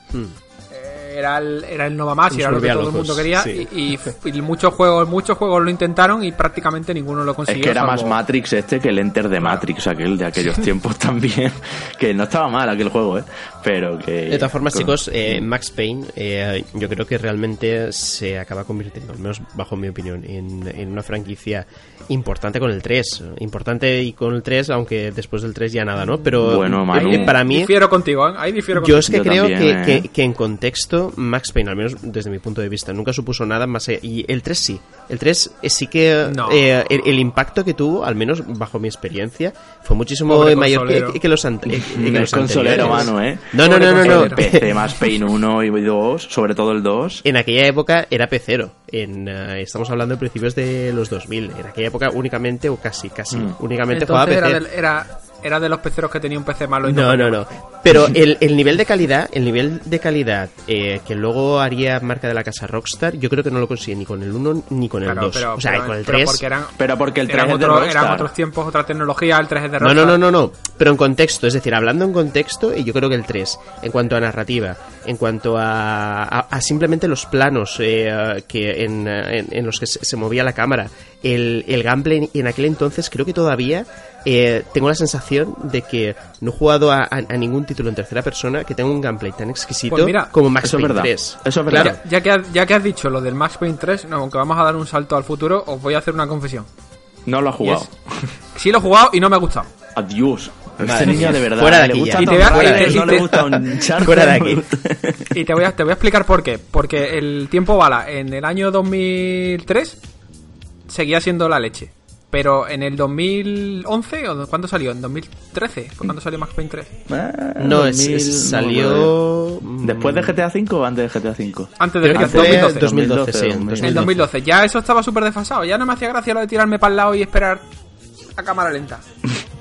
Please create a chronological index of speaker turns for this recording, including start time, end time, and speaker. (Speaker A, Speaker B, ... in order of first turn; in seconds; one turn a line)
Speaker A: 0.1-0.4
Speaker B: 0.7-8.2
Speaker A: 2.3-3.7
Speaker C: 7.5-15.4
Speaker A: 14.3-27.8
Speaker C: 26.4-27.4
Speaker B: 26.9-29.2
Speaker A: 28.8-44.8
Speaker C: 29.1-30.1
Speaker B: 36.2-36.7
Speaker B: 40.3-41.2
Speaker C: 41.7-47.2
Speaker B: 43.6-45.1
Speaker A: 47.2-54.6
Speaker B: 53.9-57.5
Speaker A: 56.9-66.4
Speaker B: 65.0-70.2
Speaker C: 66.8-68.3
Speaker A: 69.8-92.0
Speaker B: 89.9-90.3
Speaker C: 90.6-92.0
Speaker B: 91.7-96.7
Speaker C: 97.3-98.3
Speaker B: 97.6-97.9
Speaker B: 98.5-99.7
Speaker C: 100.0-105.3
Speaker A: 100.8-104.7
Speaker B: 102.2-103.4
Speaker B: 105.3-110.0
Speaker B: 110.9-116.9
Speaker C: 117.1-119.1
Speaker A: 117.6-120.4
Speaker C: 119.8-124.1
Speaker B: 121.8-122.9
Speaker A: 122.0-124.3
Speaker B: 123.8-127.6
Speaker B: 128.4-129.0